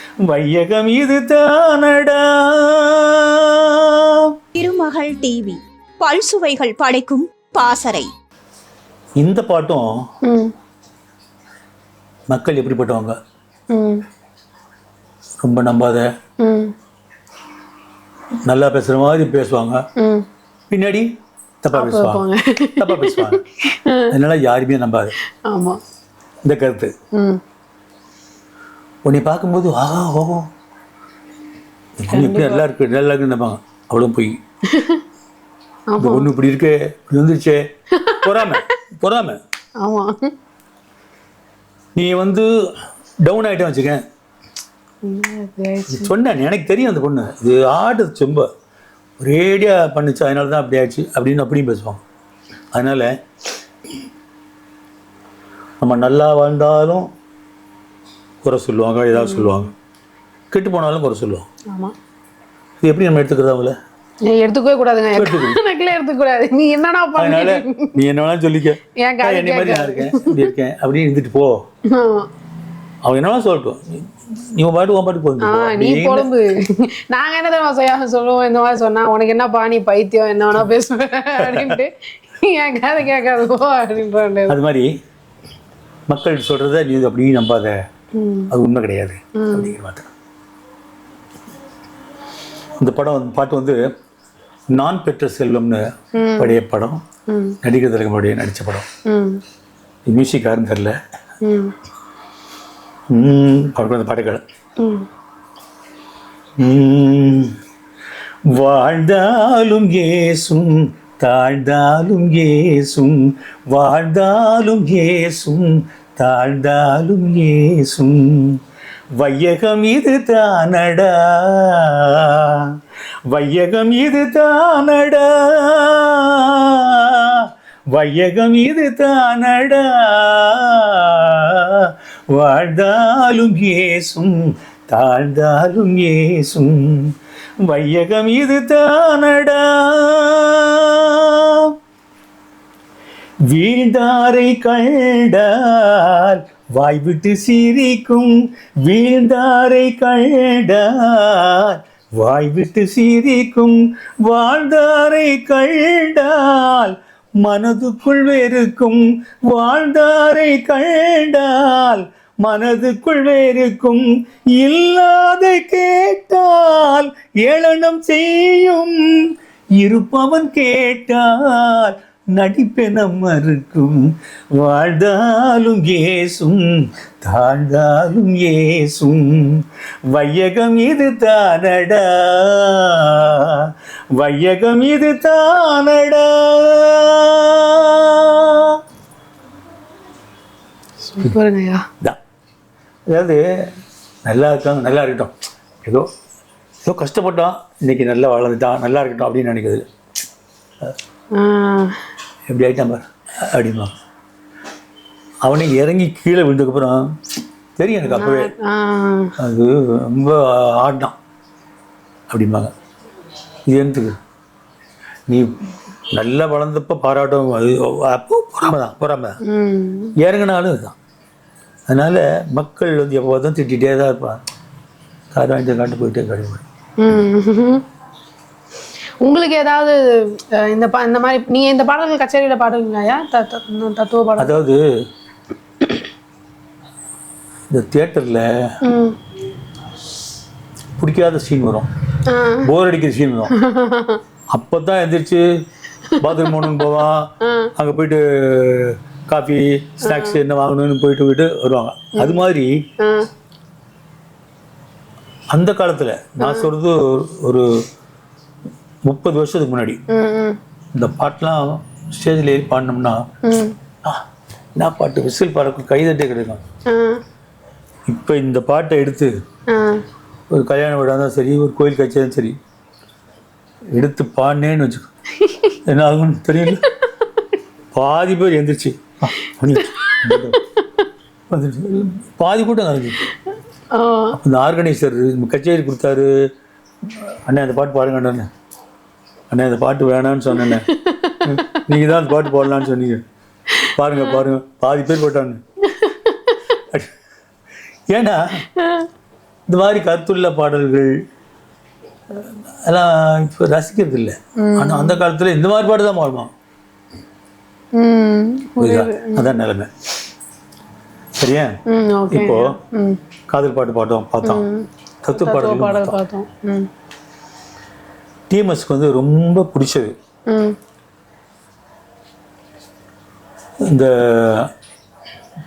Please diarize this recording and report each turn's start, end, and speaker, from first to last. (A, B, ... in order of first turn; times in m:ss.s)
0:00.3-0:04.3 A
0:04.6-0:08.1 B
0:09.2-0:09.8 A
0:10.2-0:10.5 C
0:12.3-0:13.1 A
0:13.7-0:14.0 C
0:15.4-0:16.1 A
0:16.4-0:16.7 C
0:18.4-0:19.8 A
0:20.0-0:20.2 C
0:20.7-0:21.1 A
0:21.6-0:22.2 A
0:21.7-0:24.2 C
0:22.8-0:23.4 A
0:24.1-0:25.1 A
0:25.5-0:25.8 C
0:26.4-0:26.9 A
0:27.2-0:27.4 C
0:29.0-0:30.5 A
0:32.0-0:34.4 A
0:32.1-0:32.6 C
0:34.7-0:35.0 C
0:35.9-0:36.3 C
0:36.0-0:37.7 A
0:37.9-0:38.6 C
0:38.2-0:39.4 A
0:39.8-0:40.3 C
0:41.9-0:42.5 A
0:43.2-0:44.0 A
0:45.0-0:46.1 C
0:45.9-0:48.5 A
0:49.2-0:52.0 A
0:52.7-0:53.1 A
0:55.8-0:57.1 A
0:58.4-0:59.7 A
0:59.1-0:59.5 C
1:00.5-1:01.4 A
1:02.8-1:03.7 A
1:04.3-1:07.9 C
1:05.1-1:05.6 A
1:07.2-1:11.6 A
1:09.0-1:10.5 C
1:11.9-1:12.3 C
1:13.0-1:16.3 A
1:15.4-1:24.6 C
1:21.4-1:21.8 A
1:24.5-1:24.9 A
1:26.1-1:27.8 A
1:28.1-1:28.5 C
1:28.5-1:30.1 A
1:29.4-1:29.7 C
1:32.8-1:33.9 A
1:34.7-1:37.0 A
1:36.1-1:36.6 C
1:37.3-1:37.6 C
1:37.6-1:38.9 A
1:39.0-1:39.4 C
1:40.0-1:41.0 A
1:41.4-1:41.7 C
1:43.1-1:44.4 A
1:44.8-1:45.0 C
1:46.6-1:47.5 A
1:48.5-1:58.6 A
1:59.2-2:02.7 A
2:03.3-2:21.7 A
2:23.5-3:08.8 A
3:11.0-3:11.8 C
3:13.1-3:13.7 A
3:14.2-3:16.1 A
3:16.8-3:19.8 A
3:21.3-3:22.0 C
3:22.5-3:23.9 A
3:25.4-3:27.1 A
3:27.8-3:28.5 A
3:28.1-3:29.3 C
3:29.4-3:31.1 A
3:32.3-3:32.7 A
3:33.7-3:34.2 A
3:35.3-3:35.5 A
3:36.1-3:39.4 A
3:39.4-3:40.1 C
3:40.2-3:40.9 A
3:41.9-3:44.4 A
3:45.3-3:46.6 A
3:47.0-3:47.8 C
3:49.2-3:54.5 C
3:54.4-3:54.8 A
3:57.7-3:58.7 A
3:58.8-3:59.2 C
4:01.0-4:01.9 A
4:02.3-4:02.7 C
4:02.6-4:03.5 A
4:03.5-4:04.2 C
4:04.5-4:05.6 A
4:06.1-4:07.7 C
4:06.2-4:12.8 A
4:10.0-4:10.4 C
4:13.0-4:13.3 C
4:15.5-4:17.7 A
4:16.4-4:16.7 C
4:19.1-4:20.0 A
4:20.1-4:20.6 C
4:20.9-4:23.2 A
4:23.4-4:23.7 C
4:24.8-4:26.6 A
4:26.9-4:27.2 C
4:28.1-4:29.3 A
4:29.7-4:30.0 C
4:30.5-4:32.6 A
4:33.9-4:35.1 A
4:35.4-4:35.7 C
4:35.8-4:36.8 A
4:37.9-4:40.6 A
4:40.0-4:41.0 C
4:41.5-4:43.2 A
4:43.9-4:44.4 C
4:44.3-4:46.3 A
4:47.5-4:48.5 A
4:49.5-4:50.9 A
4:50.5-4:51.8 C
4:51.4-4:53.2 A
4:53.9-4:55.6 A
4:54.2-4:54.4 C
4:55.9-4:56.6 C
4:58.1-4:58.6 A
4:58.8-4:59.1 C
4:59.7-5:01.2 A
5:02.3-5:06.5 A
5:04.6-5:05.2 C
5:08.0-5:09.5 C
5:08.8-5:09.9 A
5:11.4-5:11.7 A
5:11.9-5:13.2 C
5:12.3-5:12.8 A
5:13.5-5:14.6 A
5:14.4-5:16.9 C
5:15.2-5:16.2 A
5:18.5-5:20.1 A
5:20.5-5:20.7 C
5:23.9-5:24.7 A